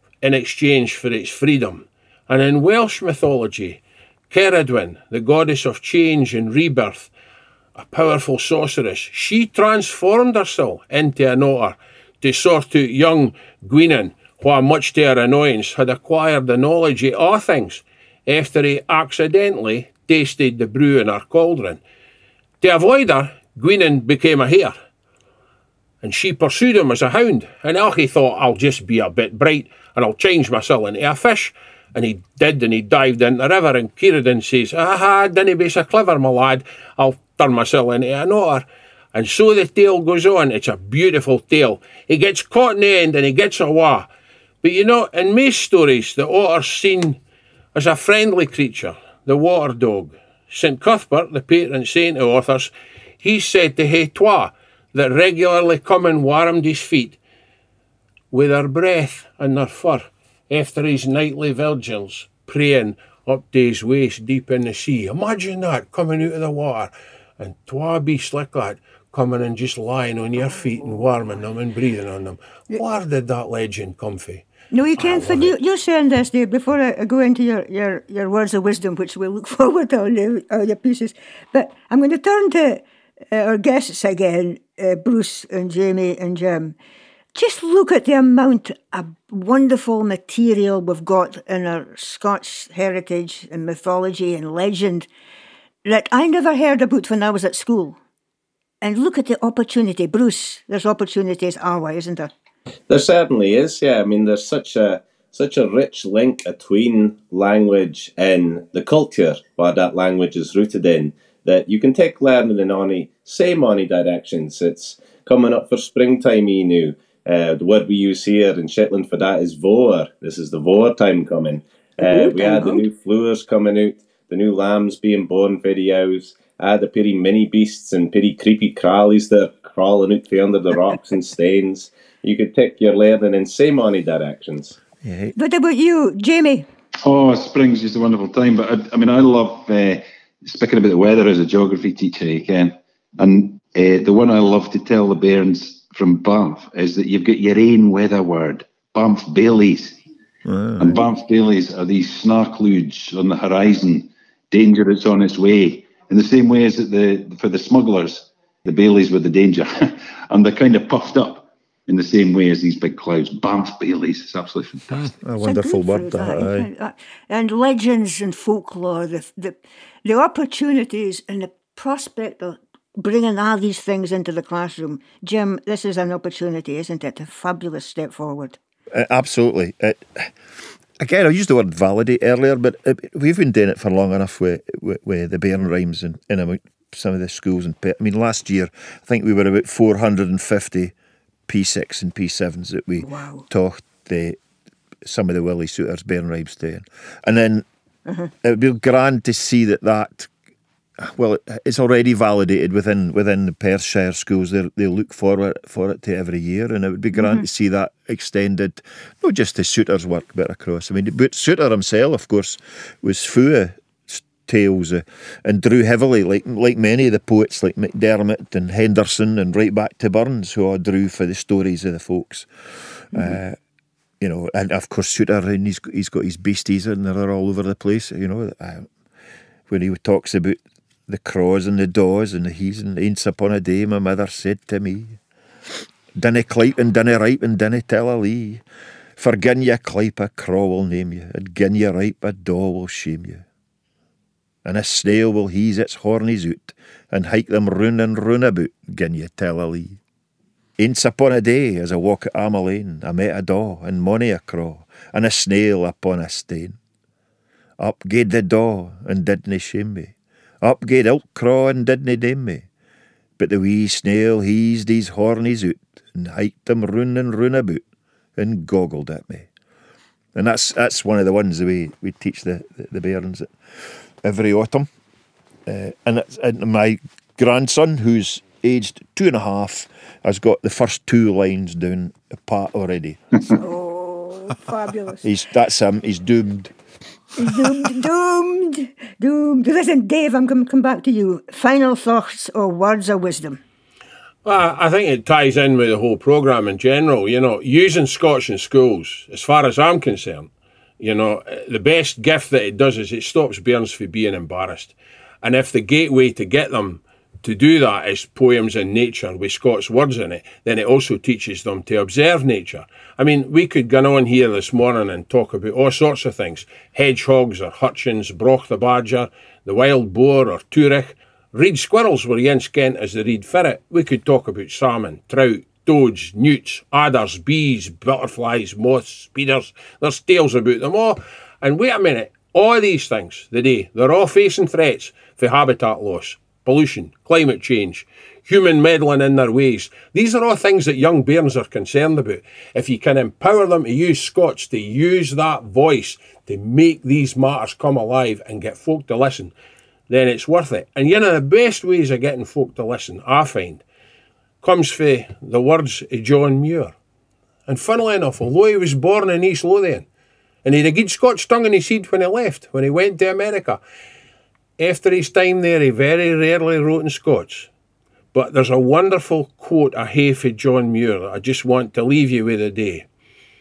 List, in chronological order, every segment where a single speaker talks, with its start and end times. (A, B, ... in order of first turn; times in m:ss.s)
0:00.2-0:07.1 A
0:07.8-0:21.8 A
0:22.6-0:24.8 A
0:26.0-0:44.1 A
0:44.6-0:47.2 A
0:47.7-0:57.2 A
0:58.3-1:14.5 A
1:14.7-1:26.8 B
1:15.0-1:15.5 A
1:27.3-1:35.1 B
1:35.8-1:38.0 B
1:38.8-1:42.3 B
1:42.9-2:14.8 C
2:02.0-2:02.8 B
2:15.0-2:15.4 D
2:15.4-2:16.7 B
2:17.0-2:30.0 E
2:30.5-2:31.0 D
2:30.8-2:45.1 E
2:45.2-2:46.7 D
2:45.4-2:58.6 B
2:58.9-3:00.3 D
3:01.0-3:10.9 D
3:11.5-3:14.4 D
3:13.0-3:13.5 B
3:15.0-3:17.6 D
3:18.1-3:18.3 B
3:18.4-3:20.3 D
3:21.0-3:42.5 D
3:27.2-3:27.5 B
3:43.1-3:43.6 D
3:44.2-3:48.9 D
3:49.7-3:55.2 D
3:56.2-3:58.6 D
3:59.2-4:03.4 D
4:04.6-4:10.0 D
4:10.8-4:16.8 D
4:17.8-4:22.6 D
4:23.4-4:27.8 D
4:28.4-4:29.5 D
4:30.4-4:33.5 D
4:34.2-4:34.9 D
4:35.7-4:43.4 D
4:43.6-4:45.2 B
4:45.2-4:46.7 D
4:47.4-4:53.6 B
4:54.4-5:49.5 A
5:50.1-5:53.8 A
5:54.6-5:57.0 A
5:57.7-6:00.1 A
6:00.6-6:03.8 A
6:04.8-6:07.7 A
6:08.3-6:13.1 A